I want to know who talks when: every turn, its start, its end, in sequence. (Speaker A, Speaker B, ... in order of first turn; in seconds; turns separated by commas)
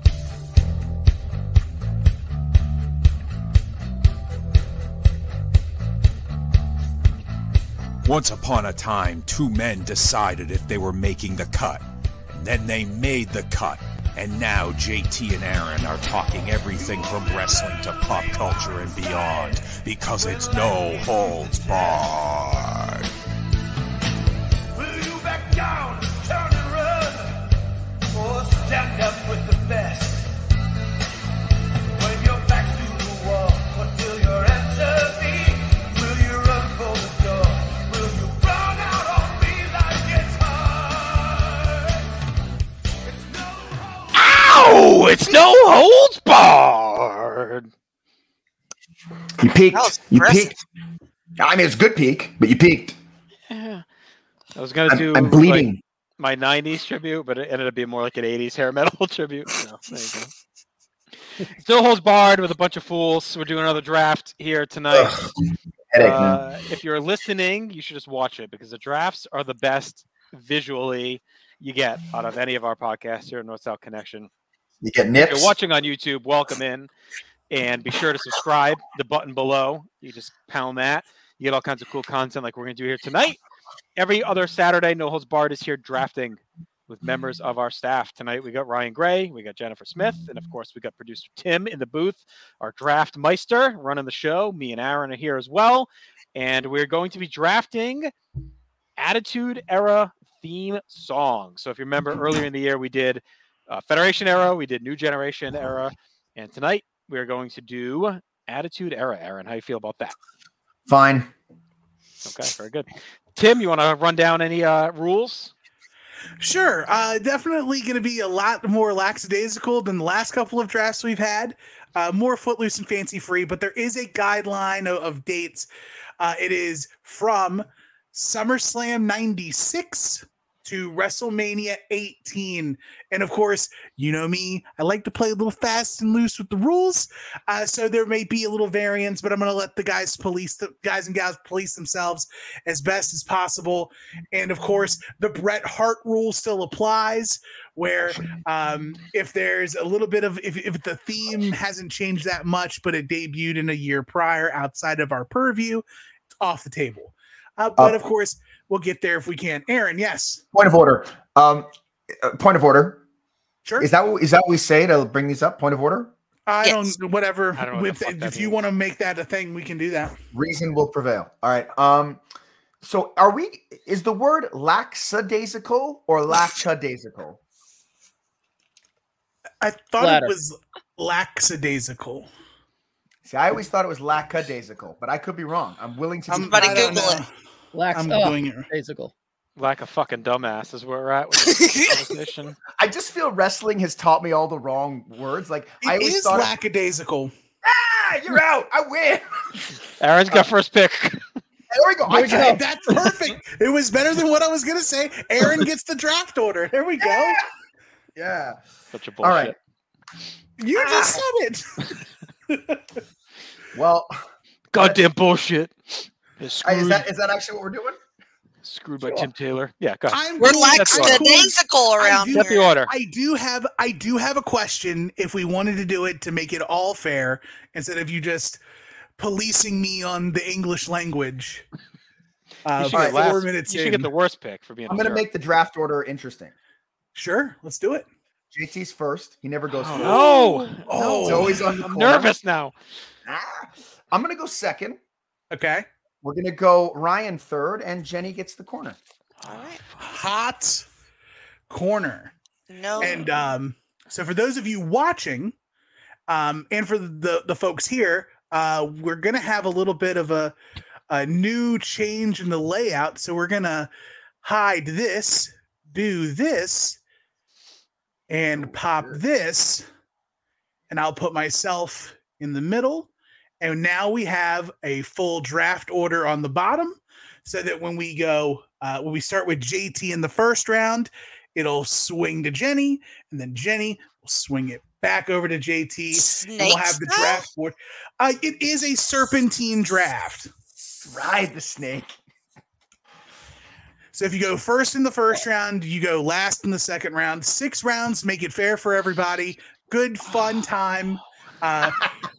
Speaker A: 8.1-23.1, Speaker B: 24.8-27.5, Speaker B: 28.1-30.3, Speaker B: 31.9-42.1, Speaker B: 43.0-44.3, Speaker C: 44.1-47.7, Speaker D: 49.4-50.6, Speaker E: 49.7-50.5, Speaker D: 51.4-53.0, Speaker C: 53.5-53.8, Speaker C: 54.6-55.7, Speaker D: 54.9-55.8, Speaker C: 56.2-60.3, Speaker C: 61.5-65.2, Speaker D: 64.9-65.3, Speaker D: 65.9-66.4, Speaker C: 66.0-74.3, Speaker D: 74.8-75.5, Speaker C: 75.3-76.9, Speaker C: 77.5-83.4, Speaker C: 84.0-98.1, Speaker C: 99.0-110.2, Speaker D: 110.9-111.3, Speaker C: 112.2-115.5, Speaker F: 116.4-125.7, Speaker F: 126.2-155.8, Speaker F: 156.4-160.4, Speaker D: 160.5-163.0, Speaker D: 163.8-166.1, Speaker F: 166.5-170.1, Speaker E: 166.6-166.9, Speaker C: 167.6-168.6, Speaker D: 170.3-172.2, Speaker D: 172.8-177.4, Speaker F: 179.6-182.3, Speaker G: 180.0-180.3, Speaker D: 183.2-187.2, Speaker F: 186.3-187.3, Speaker E: 186.4-187.2, Speaker G: 187.7-189.1, Speaker F: 187.9-188.7, Speaker C: 189.6-192.6, Speaker E: 191.5-191.8, Speaker D: 192.8-196.5, Speaker F: 195.8-197.3, Speaker D: 197.6-199.8, Speaker C: 200.0-201.2, Speaker D: 201.7-202.6, Speaker G: 202.1-202.6, Speaker F: 202.3-207.4, Speaker D: 207.0-207.4, Speaker D: 208.2-208.6, Speaker C: 208.9-209.6, Speaker D: 209.2-209.6, Speaker F: 210.6-211.9, Speaker D: 210.7-211.2, Speaker F: 212.5-212.8, Speaker D: 213.7-215.0, Speaker C: 214.7-217.1, Speaker D: 216.6-218.0, Speaker C: 218.6-221.3, Speaker G: 219.0-219.3, Speaker F: 220.1-228.6, Speaker E: 220.4-222.8, Speaker C: 222.3-222.9, Speaker F: 229.2-231.7, Speaker F: 232.7-234.1, Speaker C: 232.8-235.2, Speaker D: 232.9-233.3, Speaker D: 234.9-236.5, Speaker F: 237.2-238.1, Speaker D: 238.5-240.3, Speaker C: 239.7-242.7, Speaker F: 240.0-241.8, Speaker D: 241.2-242.4, Speaker D: 243.3-245.0, Speaker F: 245.5-245.9, Speaker D: 246.2-249.0, Speaker C: 249.4-250.1, Speaker E: 249.5-249.8, Speaker F: 250.0-250.8, Speaker F: 251.7-252.3, Speaker E: 252.7-253.4, Speaker F: 253.0-255.5, Speaker F: 256.3-260.5, Speaker F: 261.1-263.9, Speaker F: 264.4-267.0, Speaker F: 268.3-269.9, Speaker F: 270.9-273.1, Speaker F: 273.6-290.5, Speaker E: 286.2-287.5, Speaker D: 291.0-292.2, Speaker F: 294.1-302.1